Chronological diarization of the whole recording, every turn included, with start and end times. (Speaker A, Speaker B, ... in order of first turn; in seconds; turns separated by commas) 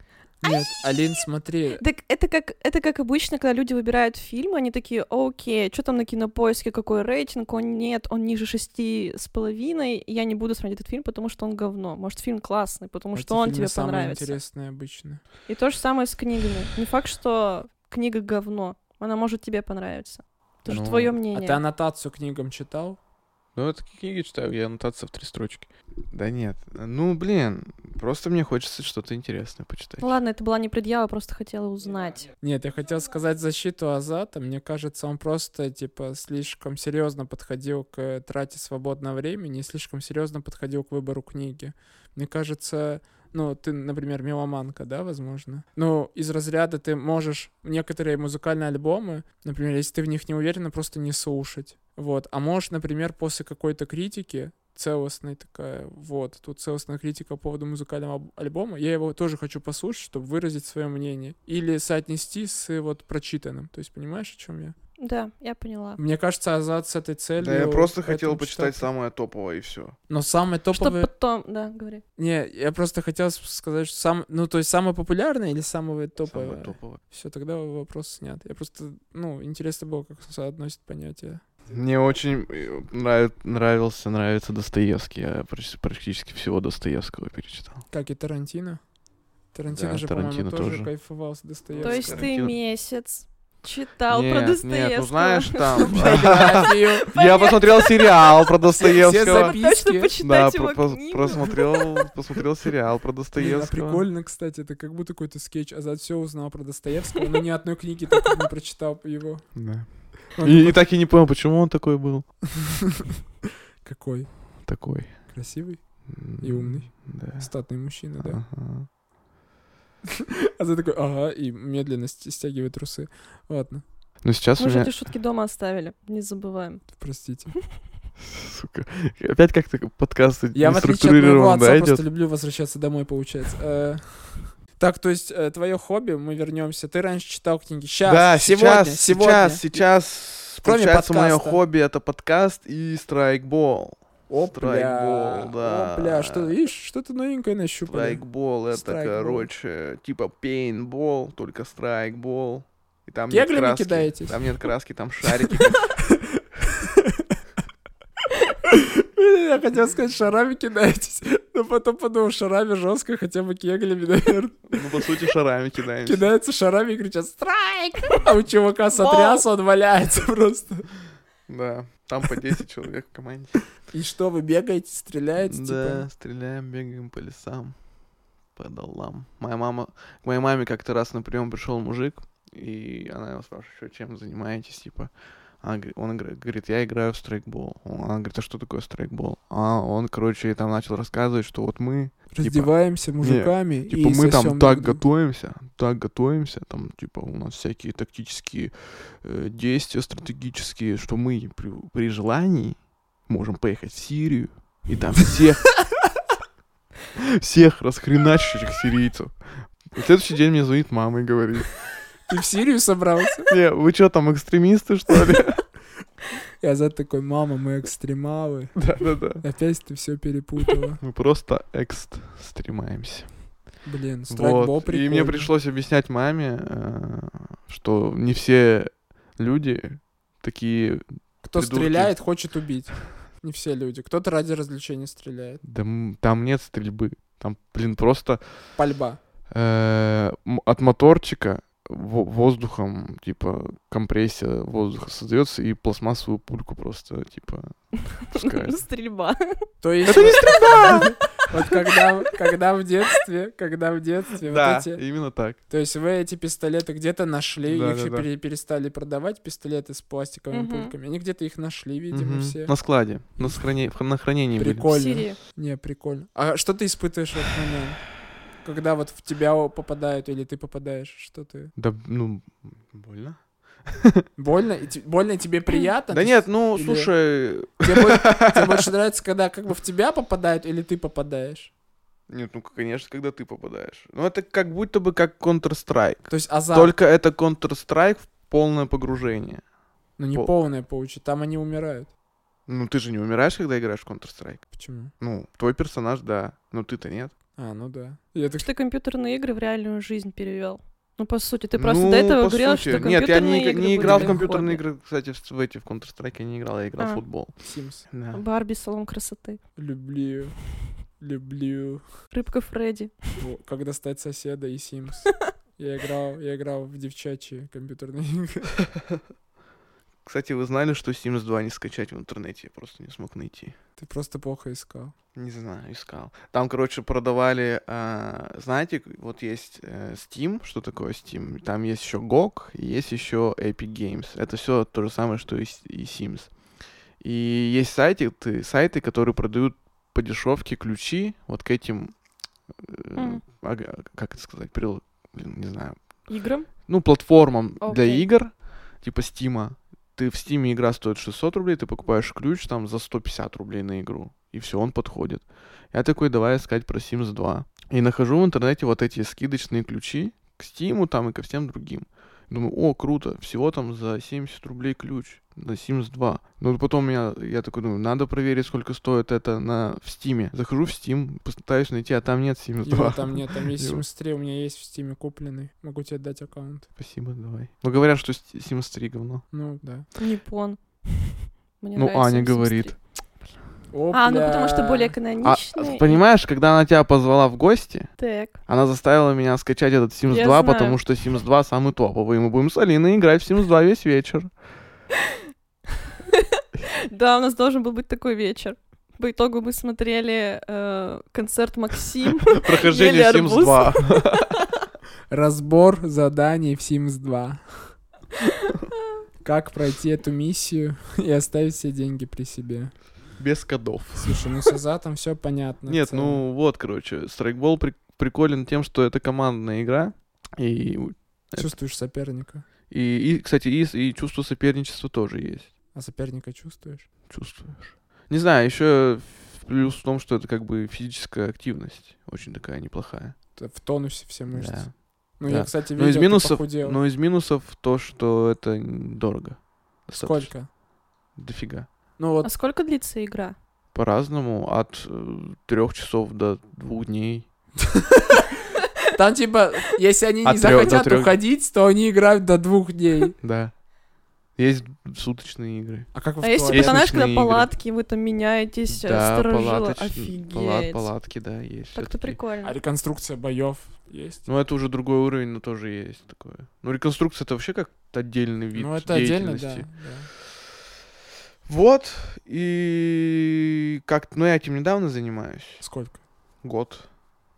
Speaker A: 0.4-1.8, Speaker B: 1.8-14.4, Speaker A: 13.1-15.2, Speaker B: 15.5-21.6, Speaker C: 20.7-21.2, Speaker A: 20.7-23.0, Speaker C: 23.5-30.1, Speaker B: 30.0-32.3, Speaker A: 32.4-64.8, Speaker B: 65.0-66.0, Speaker A: 66.0-68.9, Speaker C: 67.4-70.0, Speaker A: 70.1-71.1, Speaker B: 70.7-72.0, Speaker A: 72.2-81.4, Speaker C: 76.2-77.0, Speaker C: 81.7-87.8, Speaker A: 87.9-88.8, Speaker A: 89.5-92.3, Speaker C: 89.7-90.9, Speaker C: 91.7-92.5, Speaker B: 91.8-98.2, Speaker C: 94.1-99.5, Speaker A: 95.9-97.1, Speaker A: 98.7-100.1, Speaker B: 99.2-102.1, Speaker C: 100.2-104.0, Speaker A: 103.3-110.8, Speaker C: 109.5-112.4, Speaker A: 113.8-114.7, Speaker C: 114.6-115.4, Speaker A: 115.3-118.4, Speaker C: 116.0-118.9, Speaker A: 120.5-123.8, Speaker C: 124.2-124.9, Speaker B: 124.6-126.9, Speaker A: 126.9-127.5, Speaker C: 128.2-132.0, Speaker A: 130.5-139.7, Speaker C: 138.1-146.5, Speaker A: 140.6-141.6, Speaker A: 144.3-149.5, Speaker C: 147.9-156.0, Speaker A: 153.3-154.6, Speaker A: 155.2-157.3, Speaker A: 158.6-164.8, Speaker C: 164.7-166.3, Speaker A: 166.0-170.9, Speaker C: 169.0-169.4, Speaker C: 171.5-173.6, Speaker A: 173.9-176.1, Speaker C: 175.4-177.8, Speaker C: 178.5-205.8, Speaker A: 192.3-195.0, Speaker C: 207.2-211.8, Speaker A: 212.3-213.5, Speaker C: 213.5-215.6, Speaker A: 216.6-218.8, Speaker C: 218.7-219.4, Speaker A: 219.4-221.0, Speaker C: 221.0-223.5, Speaker A: 223.8-225.5, Speaker C: 224.3-232.3, Speaker A: 231.4-235.6, Speaker C: 235.6-238.9, Speaker A: 238.7-239.2, Speaker C: 239.5-248.8, Speaker B: 248.3-251.5, Speaker A: 249.8-255.0, Speaker C: 250.1-251.1, Speaker C: 254.4-255.6, Speaker A: 255.7-262.8, Speaker C: 257.6-258.3, Speaker B: 260.5-260.9, Speaker C: 262.1-264.9, Speaker A: 263.4-263.6, Speaker A: 264.5-271.7, Speaker B: 264.9-265.4, Speaker C: 271.8-274.2, Speaker A: 274.4-277.1, Speaker C: 276.1-278.9, Speaker A: 277.8-281.7, Speaker C: 282.3-289.6, Speaker A: 286.3-286.9, Speaker A: 290.2-292.1, Speaker C: 292.7-297.3, Speaker A: 294.7-295.1, Speaker A: 297.6-298.7, Speaker B: 298.6-304.8, Speaker C: 301.8-308.4, Speaker A: 304.0-304.4, Speaker A: 307.6-308.1, Speaker B: 308.3-309.6, Speaker A: 309.8-312.2, Speaker B: 312.3-313.2, Speaker A: 313.4-318.8, Speaker C: 320.2-323.7, Speaker A: 324.0-325.1, Speaker C: 325.3-336.5, Speaker C: 337.2-342.1, Speaker C: 342.8-346.3, Speaker B: 343.1-343.4, Speaker B: 346.3-346.7, Speaker C: 346.9-374.0, Speaker B: 347.8-348.2, Speaker A: 372.8-376.9, Speaker C: 377.0-379.5, Speaker A: 379.5-380.1, Speaker B: 380.1-383.1, Speaker C: 381.9-383.0, Speaker A: 383.9-385.1, Speaker B: 384.1-386.2, Speaker C: 385.4-388.1, Speaker B: 388.2-388.6, Speaker C: 388.6-394.5, Speaker B: 390.3-391.0, Speaker B: 396.3-404.4, Speaker C: 402.6-404.6, Speaker A: 405.3-408.0, Speaker A: 409.4-412.9, Speaker C: 413.4-414.5, Speaker A: 414.2-416.4, Speaker C: 415.9-421.8, Speaker A: 421.5-422.6, Speaker C: 422.9-425.7, Speaker A: 425.9-427.1, Speaker C: 427.3-433.4, Speaker A: 433.5-437.0, Speaker C: 434.5-440.6, Speaker A: 440.2-440.7, Speaker C: 441.3-441.9, Speaker A: 442.2-442.5, Speaker B: 442.4-443.5, Speaker C: 443.9-447.5, Speaker A: 448.1-448.4, Speaker A: 449.1-453.4, Speaker C: 450.4-451.4, Speaker C: 453.4-453.8, Speaker C: 454.5-457.7, Speaker A: 456.1-457.1, Speaker B: 456.4-461.1, Speaker C: 458.9-462.4, Speaker B: 461.9-462.8, Speaker A: 462.6-464.4, Speaker C: 464.4-470.6, Speaker A: 468.7-470.3, Speaker C: 471.6-475.9, Speaker A: 475.8-476.2, Speaker C: 476.6-477.1